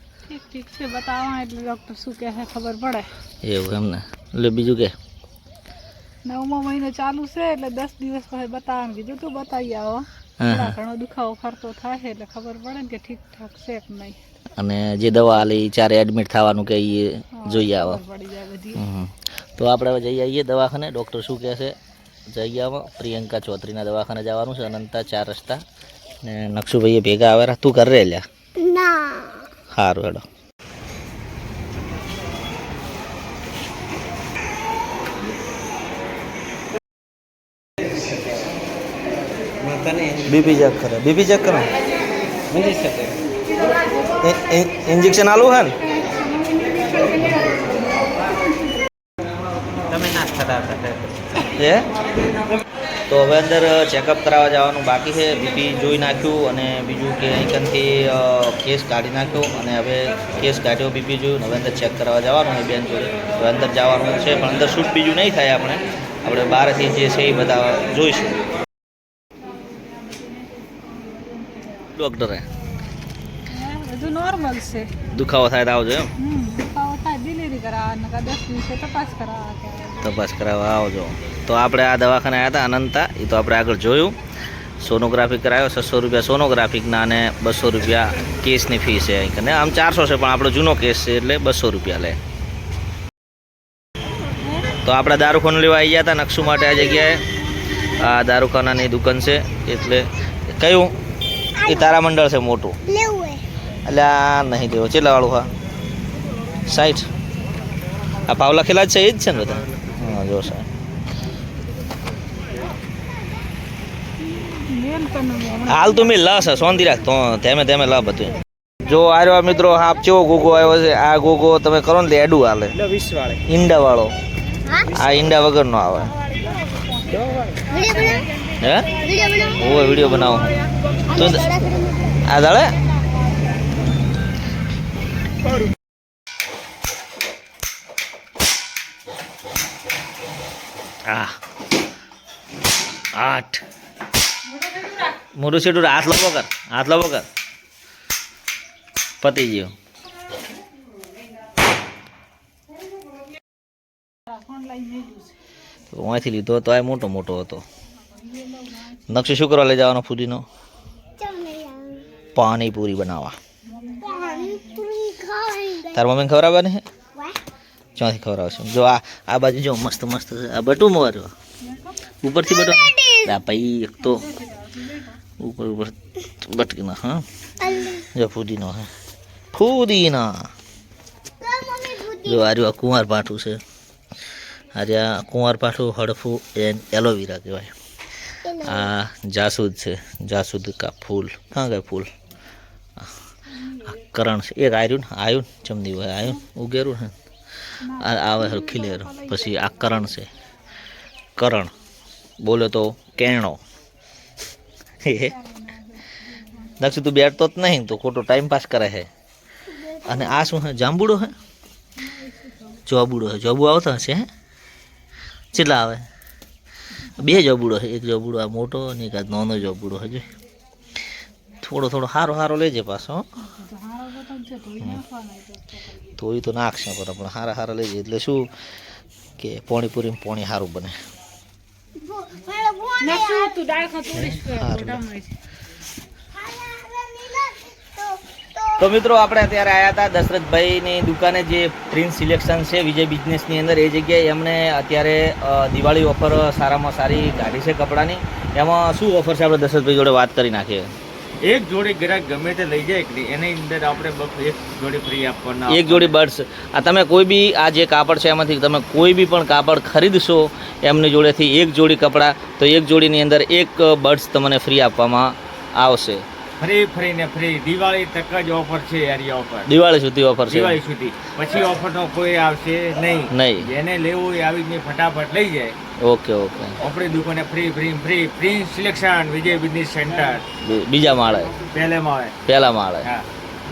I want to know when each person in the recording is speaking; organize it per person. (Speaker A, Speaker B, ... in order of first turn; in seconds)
Speaker A: 0.3-3.1, 6.3-14.2, 17.4-18.8, 39.7-40.1, 42.7-43.1, 45.9-48.0, 49.9-51.0, 69.9-71.8, 73.5-74.9, 76.2-80.1, 114.2-116.1, 154.3-155.3, 158.3-158.8, 163.7-164.8, 171.7-172.0, 174.1-175.2, 197.8-199.8, 205.4-206.8, 212.1-212.7, 223.4-226.0, 233.2-235.3
Speaker B: 3.4-4.9, 10.4-10.8, 14.6-18.0, 18.7-21.8, 22.3-25.6, 26.2-28.2, 29.7-30.3, 40.2-41.7, 44.2-45.8, 51.5-51.9, 53.1-68.3, 71.9-72.5, 75.1-76.1, 80.0-84.2, 84.8-92.2, 94.8-97.2, 97.9-100.9, 101.7-102.8, 103.9-105.5, 106.7-107.1, 108.3-110.7, 115.7-122.8, 123.4-124.1, 125.0-126.1, 128.6-128.9, 129.6-130.5, 131.2-131.4, 132.3-132.8, 141.1-141.4, 143.2-143.6, 145.4-147.2, 149.2-149.7, 155.9-157.6, 159.1-160.4, 162.3-163.4, 165.9-166.8, 168.0-171.3, 172.2-174.3, 175.4-177.2, 178.2-178.9, 179.5-180.5, 182.3-183.6, 184.8-187.7, 188.7-192.1, 193.8-197.1, 198.0-200.3, 201.4-201.7, 202.4-203.6, 205.0-205.4, 206.8-209.1, 210.1-211.3, 212.9-214.3, 215.5-216.0, 217.1-220.3, 221.6-223.3, 226.2-228.5, 229.4-230.9, 234.1-235.1, 238.8-250.9, 255.7-266.2, 269.7-270.8, 273.3-273.7, 276.0-276.8, 280.6-281.5, 282.5-283.1
Speaker C: 28.6-29.5, 101.6-102.0, 102.9-103.4, 124.7-125.0, 127.7-128.3, 128.9-130.1, 131.1-132.2, 161.2-162.1, 164.0-166.0, 172.4-173.4, 177.6-178.1, 181.4-182.5, 188.4-188.9, 209.7-210.5, 232.0-233.8, 236.3-239.0
Speaker D: 251.4-256.1, 266.6-269.7, 270.5-275.8, 276.8-280.4, 281.6-282.4